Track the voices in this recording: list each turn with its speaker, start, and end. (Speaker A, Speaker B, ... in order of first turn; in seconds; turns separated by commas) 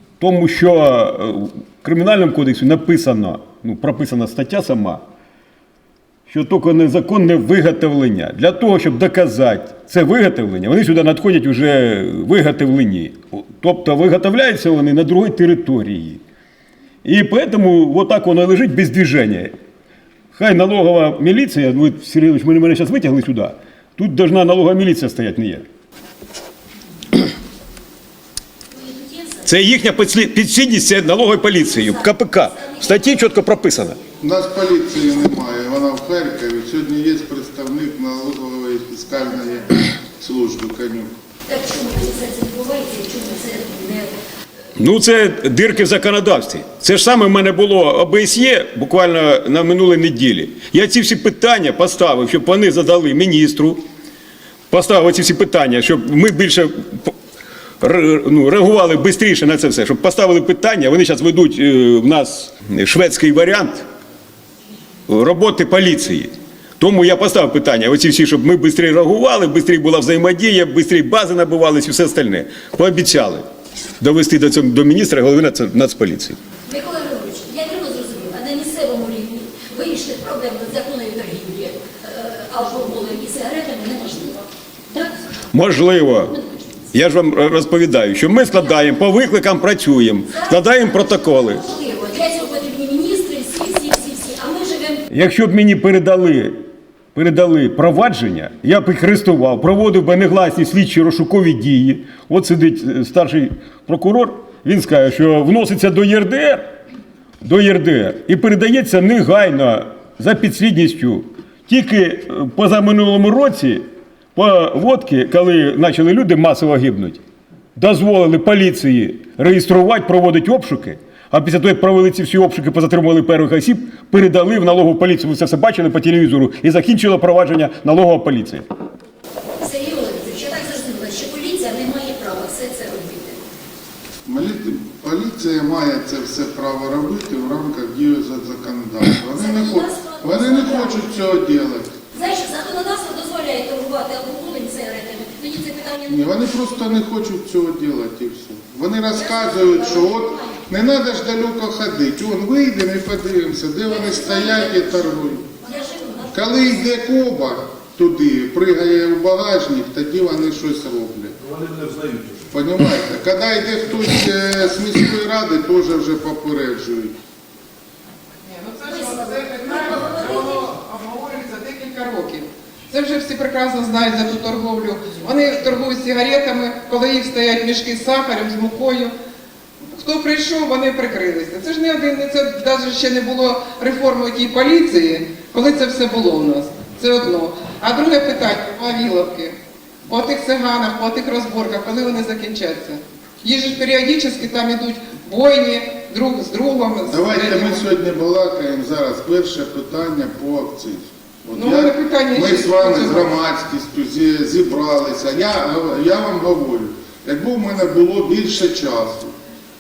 Speaker A: 0.2-5.0, Speaker A: 6.3-16.2, Speaker A: 17.0-19.5, Speaker A: 20.3-25.7, Speaker B: 28.7-29.5, Speaker A: 29.4-34.0, Speaker C: 34.2-41.1, Speaker B: 41.5-44.1, Speaker A: 44.8-53.8, Speaker A: 54.7-57.1, Speaker A: 57.8-63.9, Speaker A: 65.1-73.5, Speaker A: 74.0-76.4, Speaker B: 76.7-85.2, Speaker A: 85.5-86.4, Speaker A: 86.9-91.6, Speaker B: 90.3-95.0, Speaker A: 95.1-96.6, Speaker A: 97.1-106.7, Speaker A: 107.4-117.2, Speaker A: 117.8-128.7, Speaker B: 129.6-133.5, Speaker C: 134.3-141.9, Speaker B: 139.3-141.1, Speaker B: 142.1-146.3, Speaker C: 146.1-155.5, Speaker B: 149.1-150.6, Speaker B: 153.9-155.1, Speaker B: 155.6-156.8, Speaker C: 156.3-161.4, Speaker C: 162.5-167.2, Speaker D: 168.4-179.1, Speaker B: 168.9-170.7, Speaker D: 179.9-189.6, Speaker D: 190.1-197.9, Speaker C: 197.1-209.3, Speaker D: 201.5-203.3